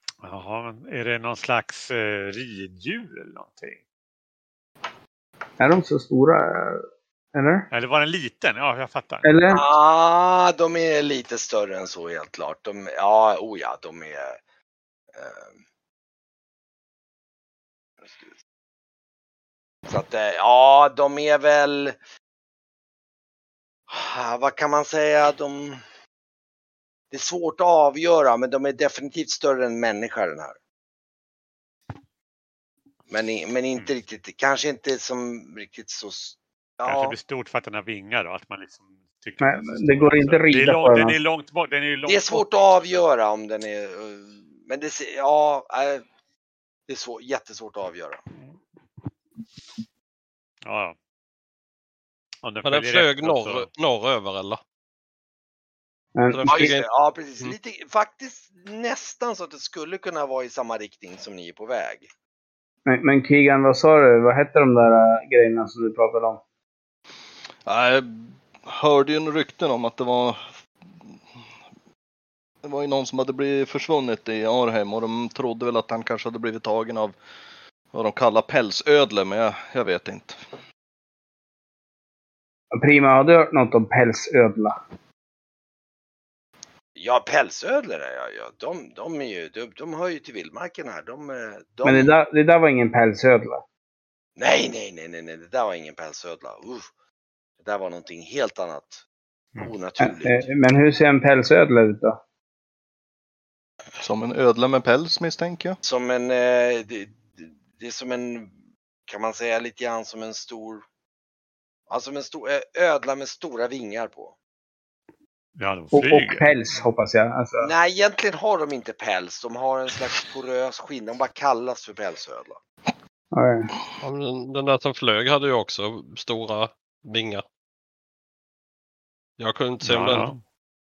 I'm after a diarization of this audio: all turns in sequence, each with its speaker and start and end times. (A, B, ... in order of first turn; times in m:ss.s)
0:00.2-0:03.8 A
0:05.6-0:07.6 B
0:07.7-0:09.4 A
0:09.2-0:09.6 B
0:09.5-0:14.4 C
0:15.1-0:15.6 C
0:18.0-0:18.3 C
0:19.9-0:22.0 C
0:23.9-0:25.8 C
0:27.1-0:30.6 C
0:33.1-0:37.2 C
0:36.8-0:42.4 A
0:39.4-0:41.2 B
0:42.0-0:46.0 C
0:46.9-0:48.2 C
0:50.6-0:51.0 A
0:52.4-0:53.7 A
0:52.6-0:54.6 D
0:56.2-0:56.5 B
0:56.3-0:56.9 D
0:56.4-1:02.1 C
1:02.8-1:06.4 B
1:07.6-1:11.4 E
1:12.6-1:17.2 E
1:17.9-1:20.4 E
1:22.7-1:24.8 B
1:27.0-1:32.1 C
1:31.8-1:33.6 B
1:34.4-1:36.9 C
1:37.6-1:39.0 C
1:39.6-1:40.5 C
1:40.0-1:42.2 B
1:44.0-1:45.8 E
1:45.8-1:48.5 C
1:49.1-1:50.8 C
1:51.9-1:54.3 C
1:55.6-1:56.5 A
1:55.9-1:57.7 B
1:57.6-2:02.6 C
2:03.3-2:03.7 B
2:04.0-2:07.4 D
2:09.4-2:10.3 D
2:09.8-2:10.4 A